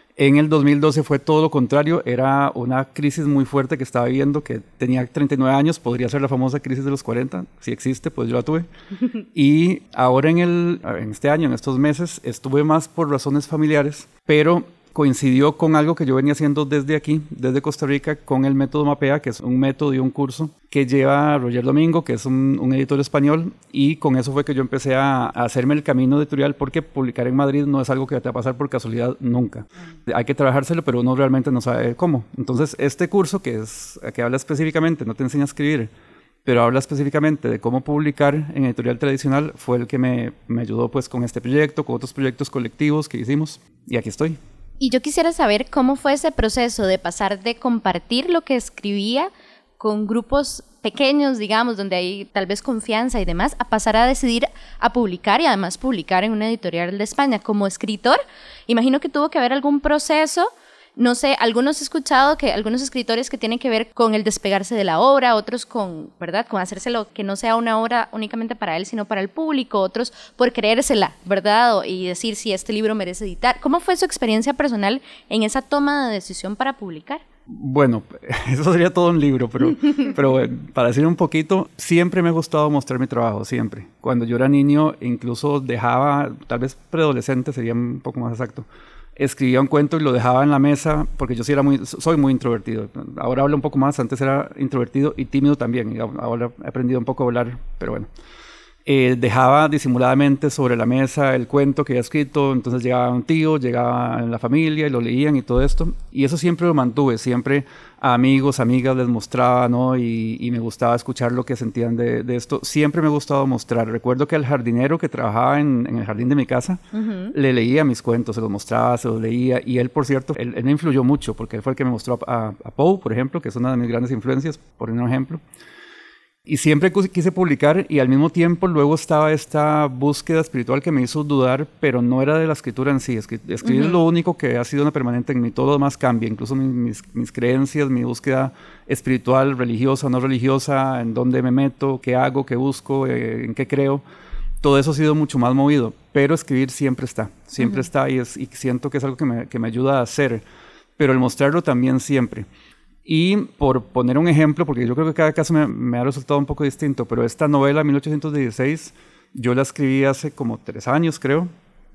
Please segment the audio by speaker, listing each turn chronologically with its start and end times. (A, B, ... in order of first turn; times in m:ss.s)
0:00.2-0:08.7 A
0:09.3-0:35.9 A
0:36.4-0:44.4 A
0:44.8-1:17.2 B
1:17.5-1:38.1 A
1:38.8-1:56.8 A
1:56.9-1:57.3 B
1:57.3-2:05.4 A
2:06.4-2:24.0 A
2:13.6-2:14.0 B
2:24.6-2:30.4 A
2:27.6-2:27.8 B
2:31.0-2:32.5 A
2:33.0-2:41.5 A